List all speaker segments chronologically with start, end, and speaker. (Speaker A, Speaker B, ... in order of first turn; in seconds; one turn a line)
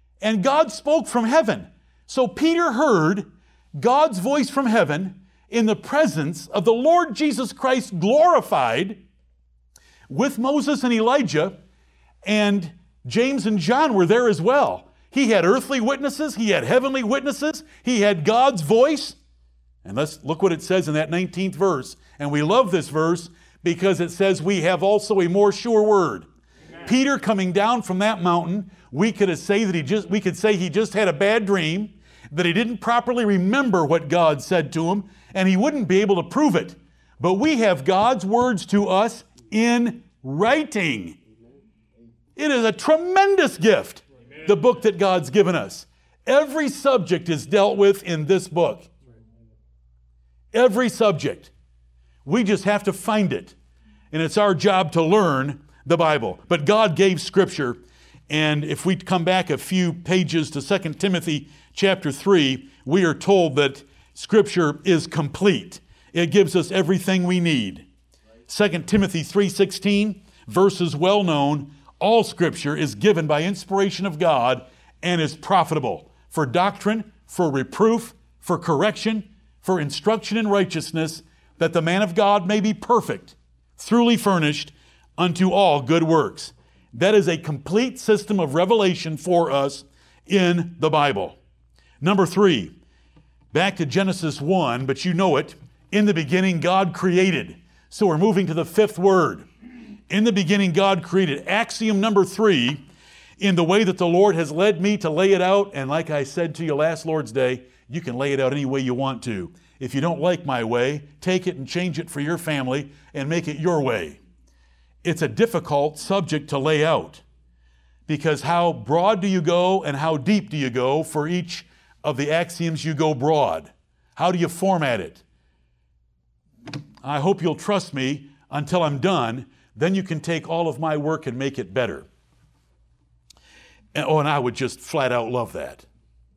Speaker A: 0.2-9.0
Speaker A: 10.1-11.6
Speaker A: 12.2-19.2
Speaker A: 19.8-26.3
Speaker A: 26.8-41.2
Speaker A: 42.4-48.9
Speaker A: 50.5-51.5
Speaker A: 52.2-53.6
Speaker A: 54.1-67.9
Speaker A: 68.5-91.4
Speaker A: 92.0-92.7
Speaker A: 93.5-99.5
Speaker A: 100.1-102.8
Speaker A: 103.4-114.2
Speaker A: 115.0-117.2
Speaker A: 118.1-125.2
Speaker A: 127.0-132.1
Speaker A: 133.9-135.9